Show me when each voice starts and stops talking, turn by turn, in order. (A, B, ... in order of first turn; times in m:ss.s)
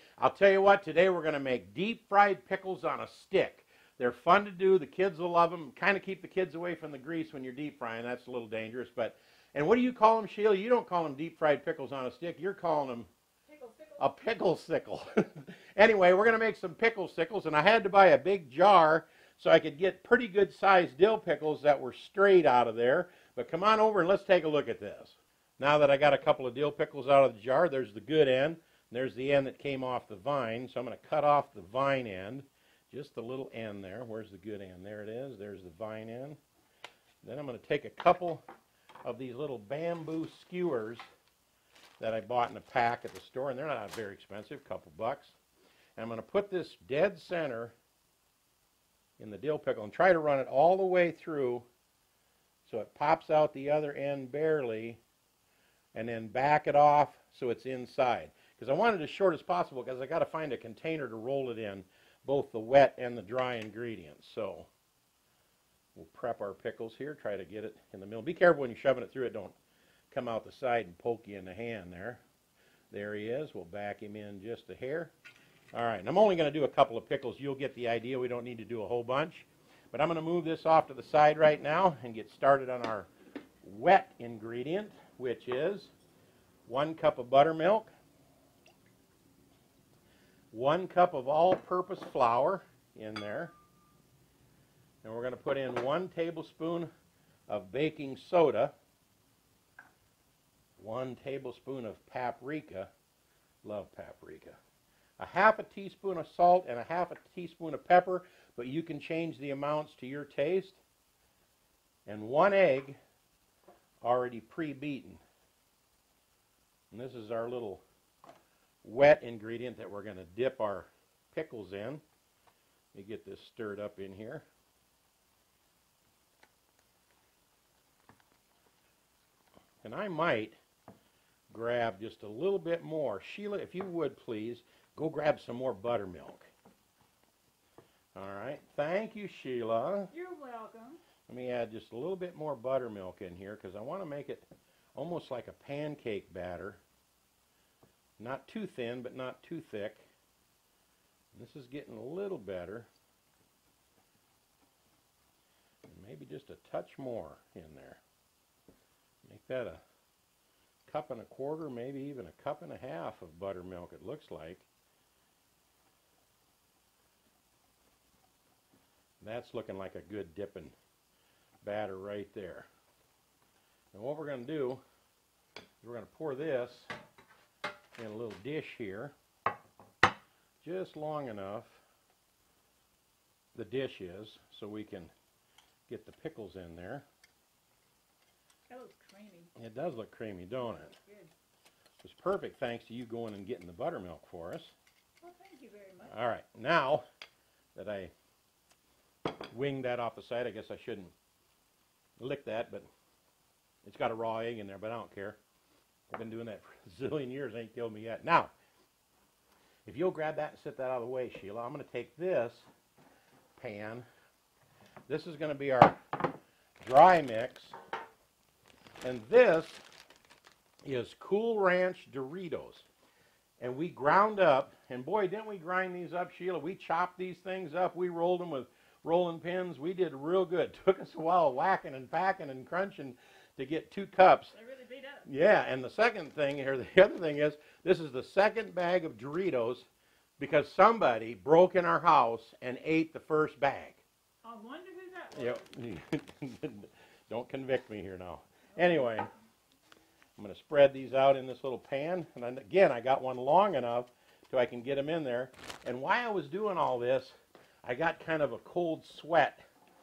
0:00.2-0:13.1 A
0:13.5-0:14.0 B
0:14.0-0:36.4 A
0:37.2-0:38.4 A
0:39.0-0:41.0 A
0:42.0-0:45.4 A
0:46.0-0:47.7 A
0:49.2-0:51.7 A
0:52.7-0:55.0 A
0:55.9-1:04.7 A
1:06.0-1:09.6 A
1:10.1-1:12.2 A
1:12.9-1:15.1 A
1:15.7-1:23.1 A
1:23.6-1:25.9 A
1:26.7-1:27.9 A
1:30.5-1:33.6 A
1:35.0-1:36.9 A
1:37.5-1:38.7 A
1:40.8-1:42.9 A
1:43.6-1:44.6 A
1:45.2-1:50.8 A
1:52.1-1:53.0 A
1:54.0-1:55.2 A
1:56.9-1:57.8 A
1:58.8-2:02.0 A
2:02.9-2:04.4 A
2:09.8-2:10.6 A
2:11.5-2:16.5 A
2:18.2-2:20.1 A
2:20.1-2:21.0 B
2:21.3-2:26.8 A
2:28.2-2:30.0 A
2:31.3-2:32.9 A
2:35.9-2:38.0 A
2:39.2-2:39.8 A
2:40.9-2:44.7 A
2:49.2-2:50.8 A
2:51.6-2:52.7 A
2:53.9-2:54.8 A
2:55.8-2:56.9 A
2:58.0-2:59.2 A
3:00.6-3:01.8 A
3:03.6-3:05.1 A
3:05.9-3:07.1 A
3:08.7-3:09.5 B
3:09.6-3:11.0 A
3:10.6-3:11.3 B
3:12.0-3:14.8 A
3:15.2-3:16.2 B
3:16.1-3:17.0 A
3:17.8-3:18.1 A
3:19.3-3:21.1 A
3:22.2-3:22.9 A
3:23.8-3:25.4 A
3:26.1-3:28.5 A
3:29.9-3:32.7 A
3:33.6-3:34.1 A
3:35.1-3:36.2 A
3:36.8-3:37.8 A
3:39.0-3:39.8 A
3:40.8-3:42.9 A
3:43.6-3:54.6 A
3:54.5-3:55.3 B
3:55.3-3:59.9 A
4:00.4-4:04.0 A
4:04.4-4:05.7 B
4:05.3-4:09.3 A
4:08.8-4:09.2 B
4:10.4-4:19.6 A